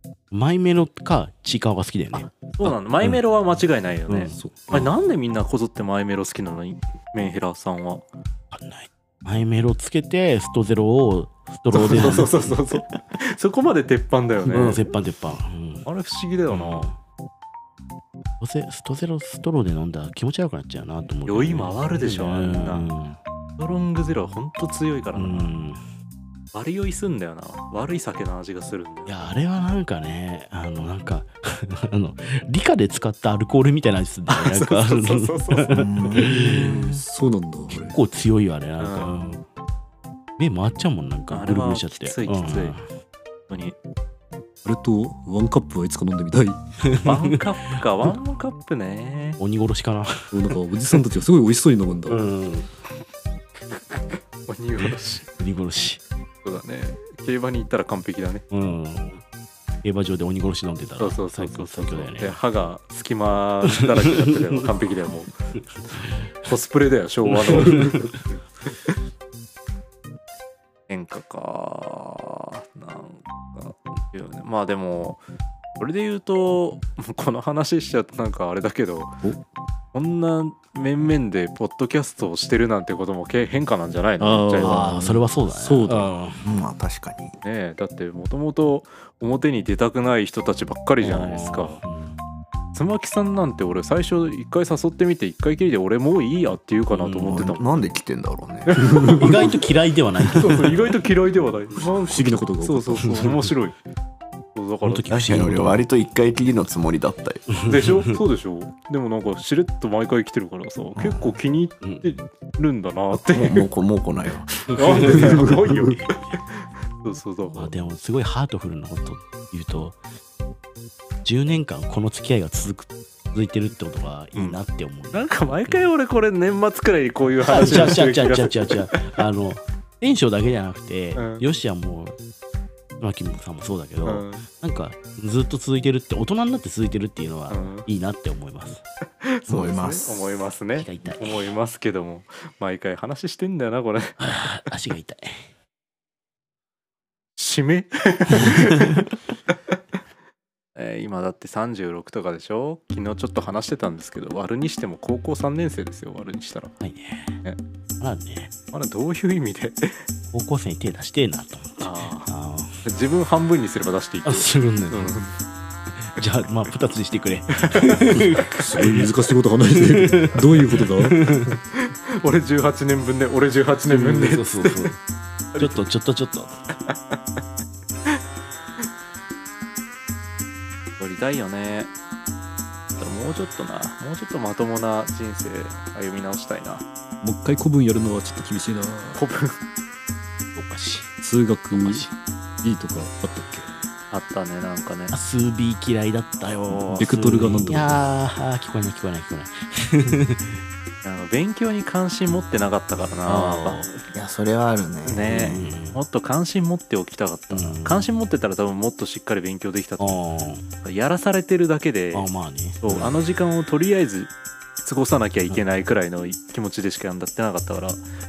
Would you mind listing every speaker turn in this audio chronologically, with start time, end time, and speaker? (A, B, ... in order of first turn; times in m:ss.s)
0:00.3-0:03.2 A
0:02.4-0:08.1 B
0:04.1-0:04.4 A
0:04.3-0:04.9 C
0:08.5-0:12.6 A
0:11.7-0:14.8 B
0:14.5-0:15.9 A
0:15.9-0:16.9 B
0:16.5-0:17.0 A
0:18.4-0:23.2 A
0:21.3-0:22.9 B
0:23.6-0:25.5 B
0:25.2-0:25.8 A
0:26.5-0:29.3 B
0:29.1-0:36.8 A
0:34.3-0:35.8 B
0:35.7-0:37.0 D
0:36.2-0:38.0 C
0:37.7-0:39.4 A
0:38.8-0:39.2 B
0:40.4-0:42.8 A
0:41.3-0:42.8 B
0:43.5-0:43.8 B
0:44.6-0:46.6 C
0:46.8-0:47.8 A
0:47.0-0:49.4 B
0:49.4-0:50.3 A
0:50.3-0:52.2 C
0:52.1-0:52.7 A
0:54.5-0:55.3 B
0:54.8-0:56.0 A
0:56.4-0:58.4 B
0:58.5-0:59.2 A
0:59.8-1:02.4 A
1:01.0-1:05.3 B
1:03.8-1:04.6 A
1:05.6-1:06.2 A
1:06.4-1:08.2 B
1:07.4-1:08.1 A
1:10.9-1:15.2 B
1:15.8-1:19.2 B
1:19.9-1:24.8 B
1:24.2-1:26.1 C
1:24.6-1:26.5 A
1:26.4-1:27.4 D
1:27.4-1:31.8 B
1:31.0-1:32.2 A
1:32.7-1:37.7 B
1:36.9-1:37.5 A
1:37.2-1:39.1 D
1:38.7-1:39.6 B
1:38.8-1:39.5 C
1:39.2-1:40.9 A
1:40.3-1:43.8 B
1:42.1-1:43.5 C
1:44.6-1:45.5 B
1:44.8-1:45.8 A
1:45.1-1:47.5 D
1:47.5-1:48.2 A
1:47.6-1:53.7 B
1:51.0-1:51.2 D
1:51.8-1:52.1 A
1:53.1-1:55.5 D
1:54.7-1:56.4 A
1:54.7-1:57.8 B
1:57.5-2:00.0 A
2:01.2-2:05.9 A
2:05.1-2:09.1 B
2:07.4-2:12.2 A
2:11.2-2:11.4 B
2:13.0-2:18.8 A
2:14.0-2:14.4 B
2:17.5-2:17.9 B
2:19.2-2:24.6 B
2:19.5-2:20.3 D
2:20.8-2:21.5 A
2:24.2-2:25.4 A
2:27.4-2:29.5 B
2:30.8-2:36.8 B
2:36.8-2:37.4 A
2:38.0-2:38.5 A
2:38.7-2:40.0 B
2:40.3-2:42.8 A
2:41.8-2:42.3 B
2:42.8-2:45.3 B
2:44.2-2:45.2 A
2:45.9-2:49.1 A
2:47.5-2:48.3 B
2:48.4-2:51.6 C
2:49.7-2:51.6 A
2:51.8-2:55.0 B
2:53.9-2:55.0 A
2:55.6-2:56.6 A
2:56.9-2:57.2 B
3:01.0-3:01.9 B
3:02.9-3:06.8 B
3:07.2-3:09.2 C
3:09.2-3:09.6 B
3:10.6-3:11.2 A
3:11.2-3:12.1 C
3:11.7-3:12.2 A
3:12.6-3:13.7 C
3:14.1-3:15.1 B
3:15.1-3:20.6 A
3:16.7-3:17.0 B
3:17.0-3:18.1 C
3:21.0-3:24.0 B
3:23.3-3:23.9 A
3:24.1-3:25.6 D
3:25.0-3:30.2 B
3:25.3-3:26.0 A
3:27.5-3:28.0 A
3:30.0-3:30.6 A
3:30.8-3:32.3 B
3:32.1-3:33.2 A
3:32.8-3:38.0 B